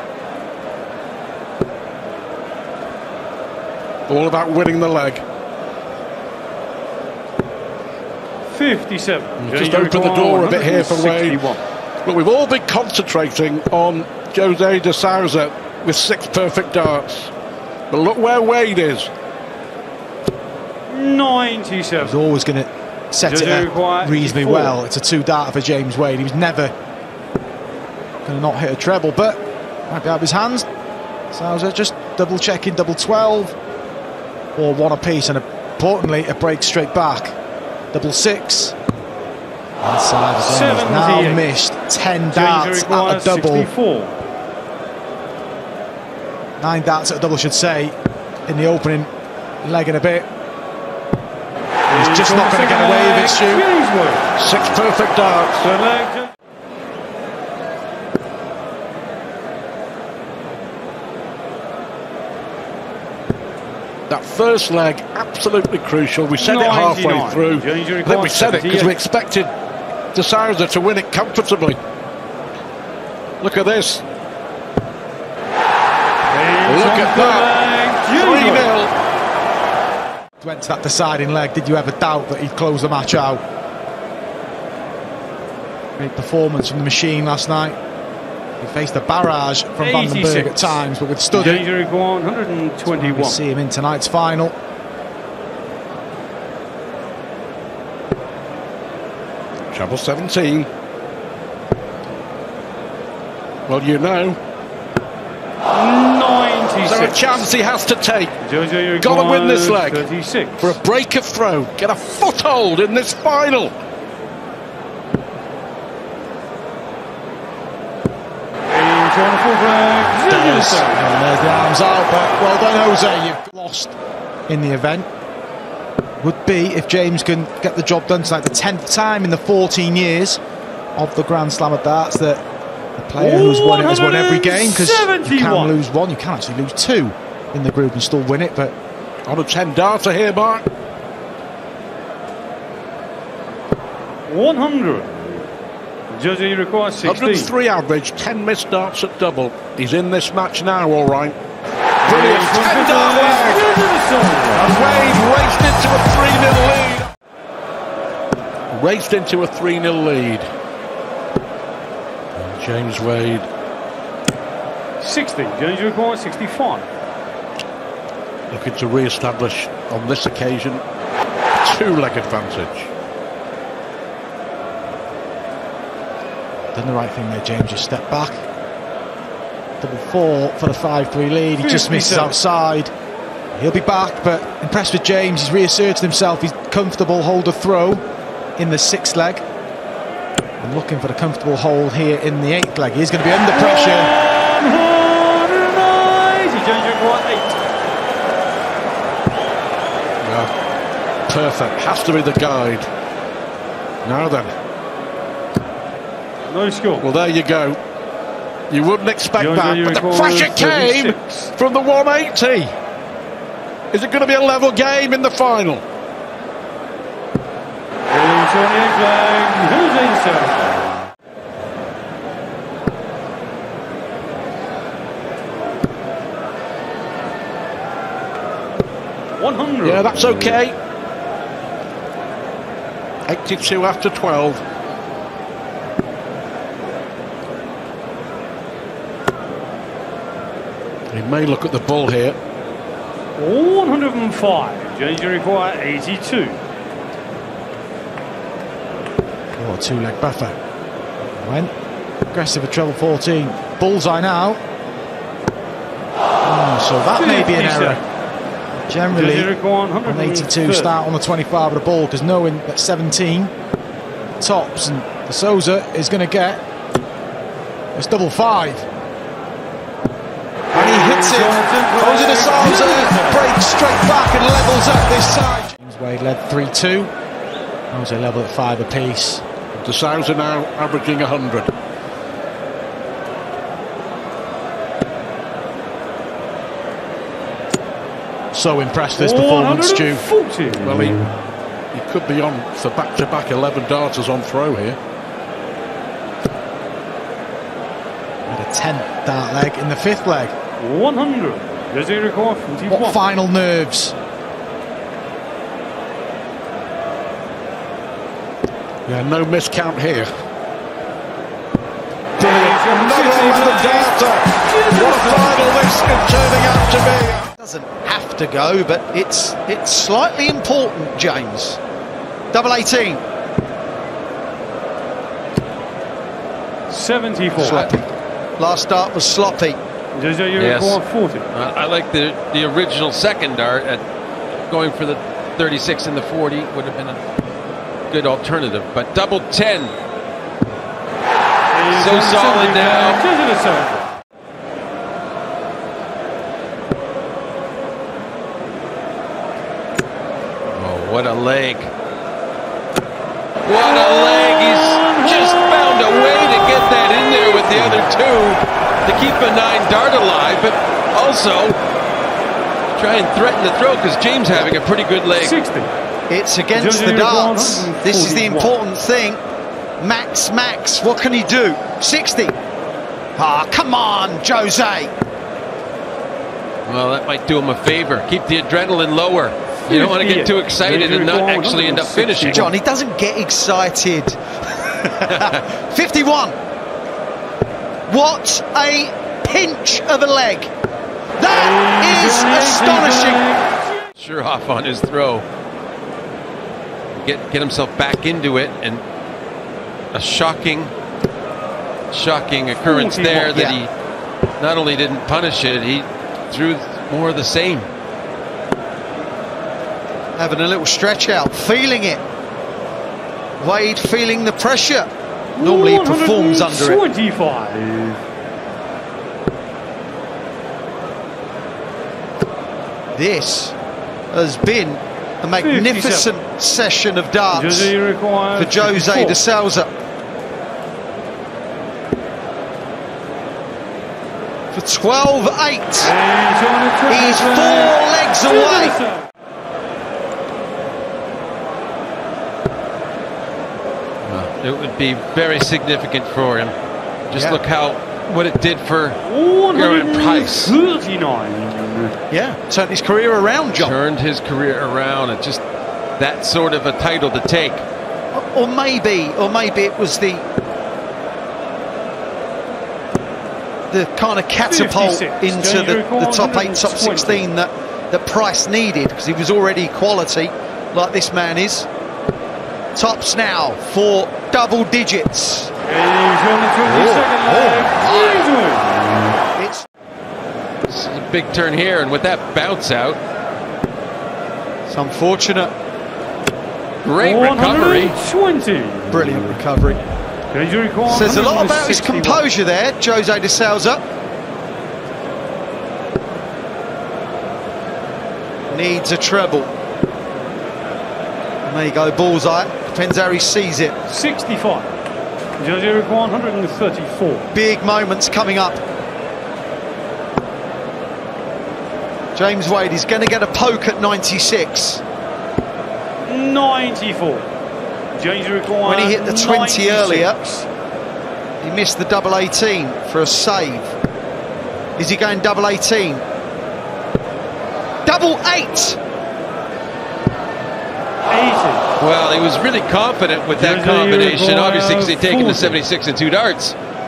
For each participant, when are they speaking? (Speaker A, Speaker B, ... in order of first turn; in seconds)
Speaker A: 4.1-5.2, 9.4-11.4, 12.0-17.3, 17.9-19.1, 54.4-55.7, 64.1-69.5, 70.1-71.8, 73.4-74.0, 76.7-77.5, 78.1-78.9, 99.7-100.7, 103.7-104.4, 106.8-108.3, 109.0-110.1, 110.6-113.7, 139.2-140.7, 147.0-151.4, 152.0-153.8, 154.5-157.1, 158.7-160.5, 162.3-163.5, 168.5-170.8, 171.6-172.9, 200.2-200.5, 201.3-202.9, 204.0-204.5, 207.0-207.8, 208.7-212.7, 213.9-215.8, 229.8-230.8, 233.3-234.6, 241.1-242.4, 279.7-281.7, 290.8-291.2, 291.9-295.0, 309.1-310.3, 312.4-317.5
Speaker B: 8.5-11.6, 20.9-22.2, 23.2-24.8, 40.4-41.5, 42.3-44.1, 51.9-54.4, 55.6-56.3, 66.4-69.0, 76.3-78.7, 89.8-90.8, 91.3-93.4, 105.7-107.5, 108.4-110.8, 118.7-121.0, 133.2-135.8, 144.3-145.4, 146.1-147.5, 152.0-155.0, 165.0-166.9, 181.6-182.3, 193.5-197.6, 206.5-207.1, 209.3-211.5, 218.1-220.8, 229.3-230.6, 243.3-246.6, 257.1-258.0, 259.1-260.9, 270.7-273.5, 289.1-291.0, 300.8-303.2, 312.4-315.7, 326.9-327.9, 330.1-331.5, 341.7-344.1, 354.0-355.5, 365.3-365.9, 366.7-368.7, 379.9-382.7, 391.5-393.8, 402.8-403.6, 415.6-418.2, 425.6-426.3, 427.5-429.4, 436.0-439.2, 449.2-452.1, 464.6-467.5, 475.9-479.2, 487.2-489.5, 490.5-492.4, 504.1-504.9, 505.6-507.5, 516.2-517.5, 518.1-520.7, 531.3-531.9, 533.6-535.8
Speaker C: 22.0-26.7, 28.2-30.6, 31.3-33.5, 34.5-37.4, 37.9-38.8, 39.8-43.7, 46.6-47.9, 48.5-49.1, 49.6-50.3, 51.9-53.6, 80.4-83.4, 86.0-87.8, 88.6-91.7, 92.9-94.5, 120.2-123.9, 124.5-125.1, 126.2-130.4, 130.9-132.4, 133.0-138.7, 176.7-178.4, 179.8-182.9, 183.5-188.0, 188.6-189.4, 190.6-194.1, 249.6-250.6, 251.4-251.7, 252.3-254.6, 256.4-258.0, 258.7-259.5, 260.0-263.5, 264.4-266.6, 267.9-268.9, 270.7-271.4, 272.0-277.1, 277.9-279.4, 288.5-290.2, 298.5-300.5, 302.9-304.1
Speaker D: 317.6-321.8, 322.5-323.2, 327.6-328.0, 328.6-329.8, 366.3-369.4, 370.0-372.6, 373.4-375.1, 382.5-386.5, 388.1-390.7, 391.4-393.4, 403.5-403.8, 410.4-412.2, 413.6-417.0, 423.1-423.7, 424.3-427.9, 428.6-429.9, 434.7-436.1, 437.1-439.0, 447.3-447.6, 452.3-454.0, 458.3-460.4, 463.9-471.9, 472.9-475.7, 476.9-478.5, 479.6-479.8, 484.9-485.7, 489.1-490.0, 491.1-494.0, 498.7-499.7, 501.6-503.9, 507.5-508.8, 512.3-515.0, 518.8-520.4, 521.6-523.9, 525.0-526.2, 528.0-529.0
Speaker E: 327.6-327.9, 330.6-331.0, 331.5-334.0, 334.7-337.2, 338.1-339.9, 341.9-343.2, 350.7-351.9, 353.6-361.8, 362.9-365.6, 376.9-382.7, 385.3-385.6, 394.2-395.4, 397.1-399.0, 400.1-400.9, 402.1-403.9, 404.6-407.9, 444.2-446.7, 447.3-449.2, 449.7-450.8, 453.8-455.6, 456.2-457.8, 480.9-483.2, 487.0-488.1, 532.0-536.7